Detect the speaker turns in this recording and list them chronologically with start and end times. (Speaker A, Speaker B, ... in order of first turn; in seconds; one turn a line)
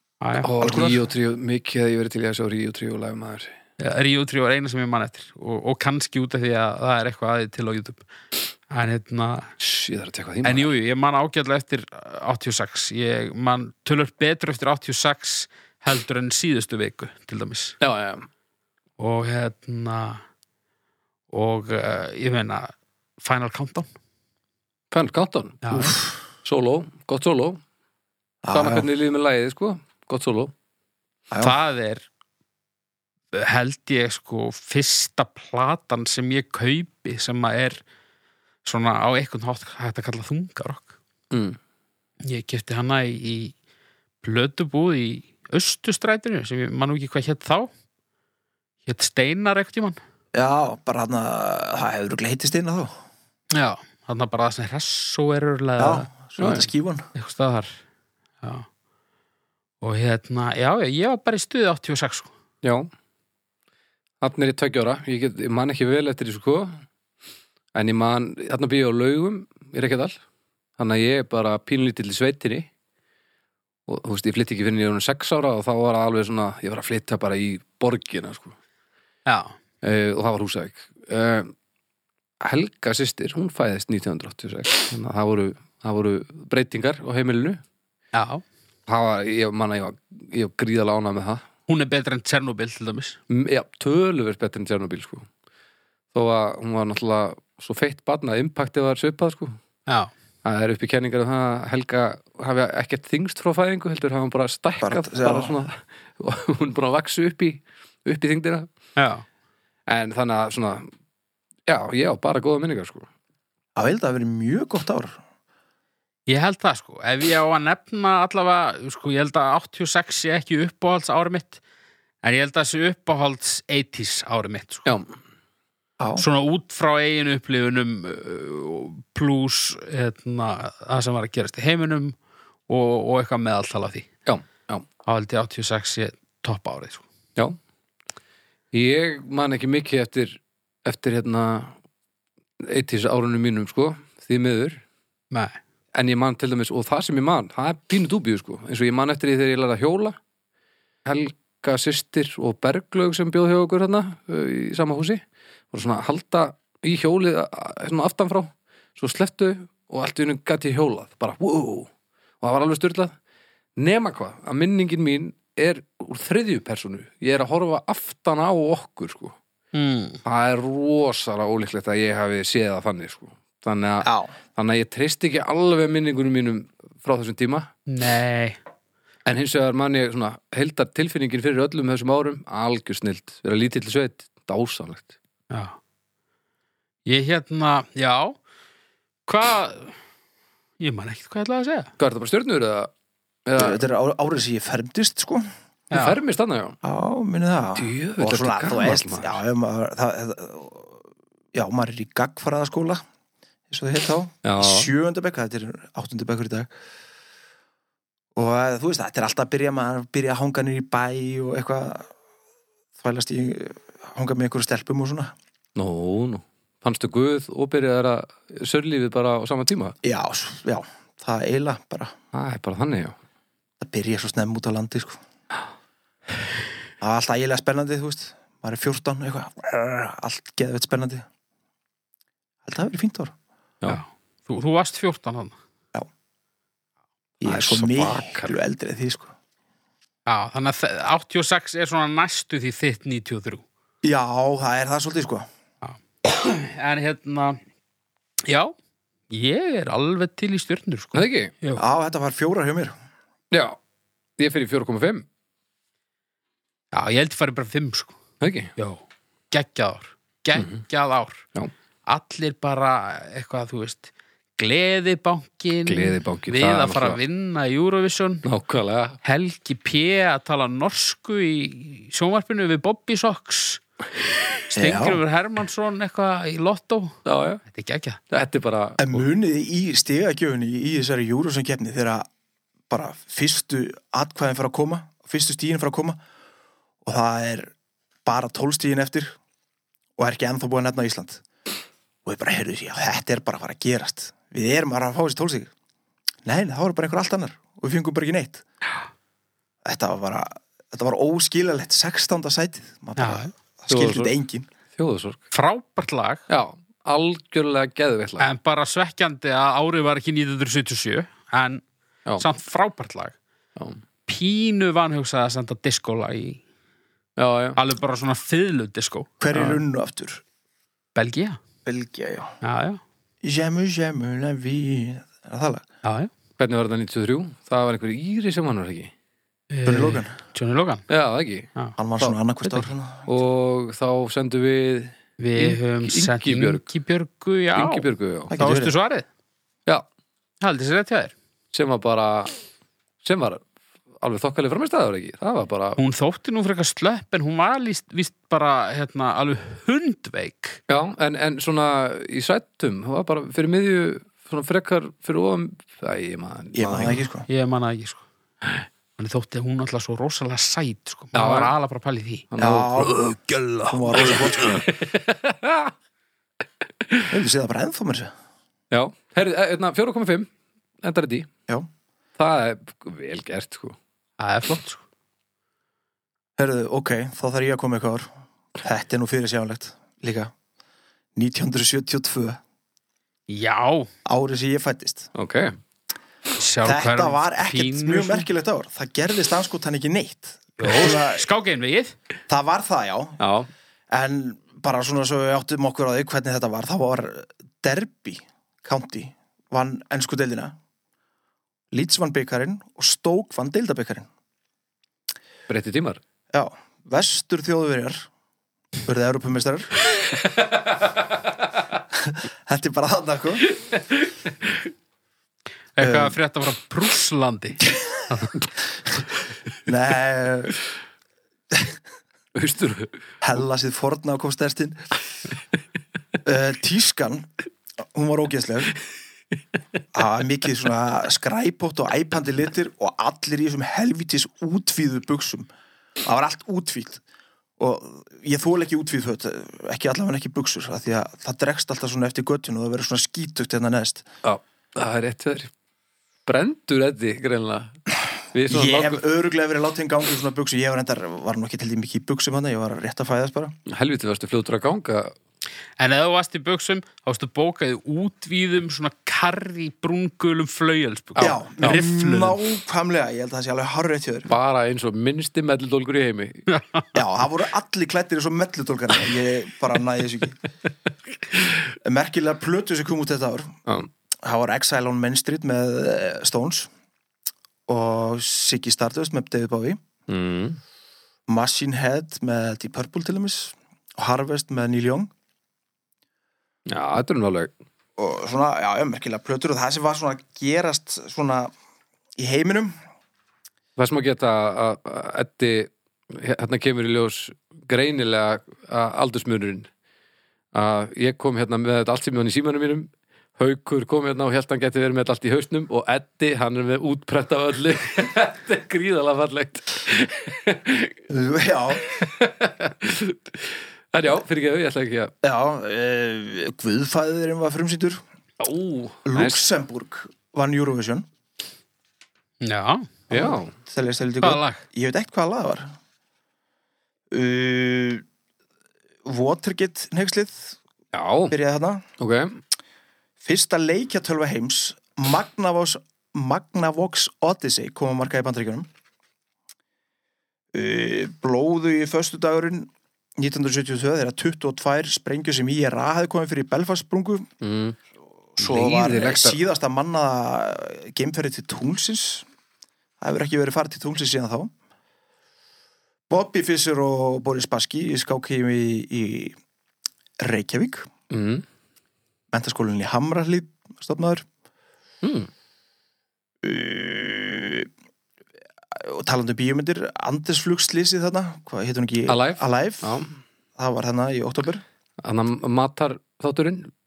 Speaker A: 0.2-0.5
Speaker B: 0.4-3.5
Speaker C: 0.6-1.0
Speaker A: 3.8-8.0
Speaker A: 8.7-9.5
Speaker B: 9.6-10.7
Speaker A: 10.4-17.8
Speaker B: 17.8-18.3
Speaker A: 19.0-20.2
Speaker A: 21.3-23.9
Speaker B: 24.9-27.6
Speaker A: 25.6-26.0
Speaker C: 28.4-28.9
Speaker B: 28.5-30.5
Speaker C: 31.3-31.6
Speaker A: 31.4-32.0
Speaker A: 33.3-37.8
Speaker A: 38.6-40.9
Speaker B: 41.3-41.6
Speaker A: 42.2-43.5
Speaker A: 44.2-47.7
Speaker A: 48.9-50.0
Speaker C: 50.3-52.9
Speaker A: 53.5-56.1
Speaker C: 55.8-57.1
Speaker B: 56.4-56.7
Speaker A: 57.1-57.7
Speaker A: 58.4-58.7
Speaker A: 59.8-62.3
Speaker B: 62.6-62.9
Speaker B: 64.2-66.8
Speaker B: 67.7-70.2
Speaker B: 70.8-72.7
Speaker B: 73.9-78.5
Speaker A: 79.3-79.6
Speaker B: 79.8-81.5
Speaker B: 82.4-87.6
Speaker A: 88.1-88.4
Speaker B: 88.9-91.4
Speaker A: 91.7-93.2
Speaker B: 93.3-95.3
Speaker B: 96.1-99.6
Speaker A: 99.9-100.1
Speaker B: 100.4-108.7
Speaker C: 104.8-105.5
Speaker A: 109.0-109.2
Speaker B: 109.9-110.9
Speaker B: 111.7-113.1
Speaker C: 113.8-115.2
Speaker A: 116.3-121.6
Speaker A: 122.2-124.9
Speaker B: 124.9-125.1
Speaker A: 126.2-132.2
Speaker A: 132.7-134.1
Speaker B: 134.3-134.9
Speaker A: 135.1-137.1
Speaker B: 138.7-141.8
Speaker B: 142.6-144.8
Speaker A: 145.3-145.6
Speaker B: 145.9-150.2
Speaker B: 151.1-161.9
Speaker B: 162.4-163.2
Speaker B: 163.8-169.4
Speaker A: 169.7-170.2
Speaker B: 170.2-177.7
Speaker C: 174.0-174.3
Speaker A: 177.9-178.6
Speaker B: 179.2-185.1
Speaker A: 185.5-185.8
Speaker A: 187.1-188.4
Speaker A: 189.3-190.0
Speaker A: 190.8-191.9
Speaker B: 192.0-192.9
Speaker B: 193.5-193.8
Speaker C: 193.6-195.5
Speaker A: 195.9-196.2
Speaker B: 195.9-196.8
Speaker C: 196.8-201.0
Speaker B: 197.8-199.4
Speaker C: 201.5-203.0
Speaker C: 203.7-206.7
Speaker B: 204.4-204.9
Speaker C: 208.3-212.1
Speaker C: 213.0-215.3
Speaker B: 215.8-220.0
Speaker C: 220.0-222.1
Speaker B: 222.3-223.2
Speaker C: 223.8-225.2
Speaker C: 227.0-231.2
Speaker C: 232.7-233.3
Speaker A: 233.9-235.6
Speaker C: 237.4-239.3
Speaker B: 237.4-238.6
Speaker A: 240.3-243.6
Speaker C: 244.0-245.5
Speaker A: 245.8-247.6
Speaker A: 248.5-248.7
Speaker A: 249.3-251.8
Speaker B: 251.1-251.5
Speaker C: 251.8-252.9
Speaker B: 253.5-253.8
Speaker B: 254.4-255.3
Speaker A: 256.9-258.2
Speaker B: 258.4-258.7
Speaker A: 258.8-261.5
Speaker B: 260.6-260.8
Speaker A: 262.1-268.5
Speaker B: 265.9-267.2
Speaker B: 268.4-269.2
Speaker A: 269.2-273.8
Speaker A: 274.4-278.2
Speaker C: 274.8-275.2
Speaker B: 277.3-277.6
Speaker B: 278.3-279.0
Speaker C: 279.0-282.3
Speaker C: 282.9-286.2
Speaker C: 287.1-287.7
Speaker C: 288.2-289.4
Speaker C: 290.2-291.4
Speaker C: 292.3-295.7
Speaker C: 296.4-298.6
Speaker C: 299.9-304.7
Speaker A: 303.2-303.5
Speaker B: 303.9-304.3
Speaker B: 304.9-305.4
Speaker A: 305.5-306.4
Speaker B: 306.5-308.5
Speaker A: 308.4-311.8
Speaker A: 312.4-313.4
Speaker A: 314.3-316.6
Speaker B: 317.4-317.8
Speaker A: 317.8-319.8
Speaker C: 319.4-320.4
Speaker A: 321.1-321.6
Speaker C: 321.9-322.5
Speaker A: 322.6-323.0
Speaker C: 323.4-325.8
Speaker A: 326.0-326.3
Speaker B: 326.6-329.1
Speaker A: 329.7-331.1
Speaker C: 329.9-330.4
Speaker B: 331.1-331.7
Speaker C: 332.0-333.3
Speaker A: 332.6-332.9
Speaker B: 333.3-336.9
Speaker A: 335.4-339.3
Speaker B: 337.8-338.5
Speaker C: 338.5-338.9
Speaker A: 340.6-341.3
Speaker B: 341.7-342.5
Speaker B: 343.2-343.6
Speaker B: 344.2-346.0
Speaker A: 346.0-350.8
Speaker B: 350.9-357.2
Speaker C: 356.8-357.5
Speaker A: 357.5-358.2
Speaker A: 359.2-362.5
Speaker B: 361.3-361.7
Speaker B: 362.5-363.1
Speaker C: 362.6-363.2
Speaker A: 363.1-364.8
Speaker C: 363.9-364.8
Speaker B: 364.1-365.9
Speaker B: 367.0-367.3
Speaker C: 367.3-368.3
Speaker B: 368.9-370.5
Speaker B: 371.0-371.5
Speaker B: 372.4-374.0
Speaker A: 374.4-375.0
Speaker C: 376.6-380.5
Speaker C: 381.4-382.6
Speaker A: 383.5-384.1
Speaker C: 384.3-385.3
Speaker B: 385.4-385.7
Speaker A: 386.6-388.5
Speaker C: 386.8-391.5
Speaker A: 390.8-392.1
Speaker C: 392.5-393.4
Speaker B: 393.4-393.7
Speaker C: 394.1-400.8
Speaker C: 401.9-404.3
Speaker B: 405.7-406.2
Speaker C: 406.5-408.3
Speaker C: 409.1-410.0
Speaker C: 412.3-413.7
Speaker B: 413.8-414.9
Speaker A: 416.0-418.5
Speaker C: 416.0-416.4
Speaker C: 419.9-420.8
Speaker B: 422.6-423.2
Speaker C: 423.4-425.0
Speaker C: 426.4-427.5
Speaker C: 428.1-429.0
Speaker C: 430.1-435.7
Speaker C: 436.2-437.2
Speaker C: 437.8-444.3
Speaker B: 444.4-445.7
Speaker B: 446.5-449.2
Speaker C: 448.7-453.8
Speaker B: 453.9-455.4
Speaker A: 456.0-462.6
Speaker B: 461.4-462.0
Speaker C: 461.4-464.5
Speaker B: 464.5-466.7
Speaker A: 466.7-467.1
Speaker C: 467.1-470.6
Speaker C: 472.0-473.8
Speaker C: 474.4-476.9
Speaker C: 477.9-480.0
Speaker B: 480.3-480.8
Speaker C: 481.5-485.3
Speaker B: 486.9-487.7
Speaker C: 488.2-491.7
Speaker C: 492.4-492.9
Speaker B: 494.0-499.9
Speaker B: 500.7-511.2
Speaker C: 511.3-512.2
Speaker B: 512.1-515.3
Speaker C: 515.4-518.2
Speaker B: 518.6-519.6
Speaker C: 519.3-521.2
Speaker A: 522.6-523.1
Speaker B: 523.3-523.7
Speaker C: 523.3-525.9
Speaker A: 524.4-524.8
Speaker C: 527.3-528.2
Speaker C: 529.2-530.8
Speaker B: 531.1-531.6
Speaker C: 531.5-532.0
Speaker B: 532.2-532.6
Speaker C: 533.4-538.9
Speaker C: 540.7-547.5
Speaker B: 547.6-548.0
Speaker C: 548.6-552.5
Speaker B: 548.6-549.6
Speaker C: 553.2-554.7
Speaker C: 556.3-559.6
Speaker C: 560.4-561.1
Speaker B: 561.3-561.6
Speaker C: 562.5-564.4
Speaker B: 565.2-565.5
Speaker C: 566.6-567.9
Speaker C: 569.0-573.2
Speaker B: 572.3-573.3
Speaker C: 573.8-574.8
Speaker B: 575.2-576.9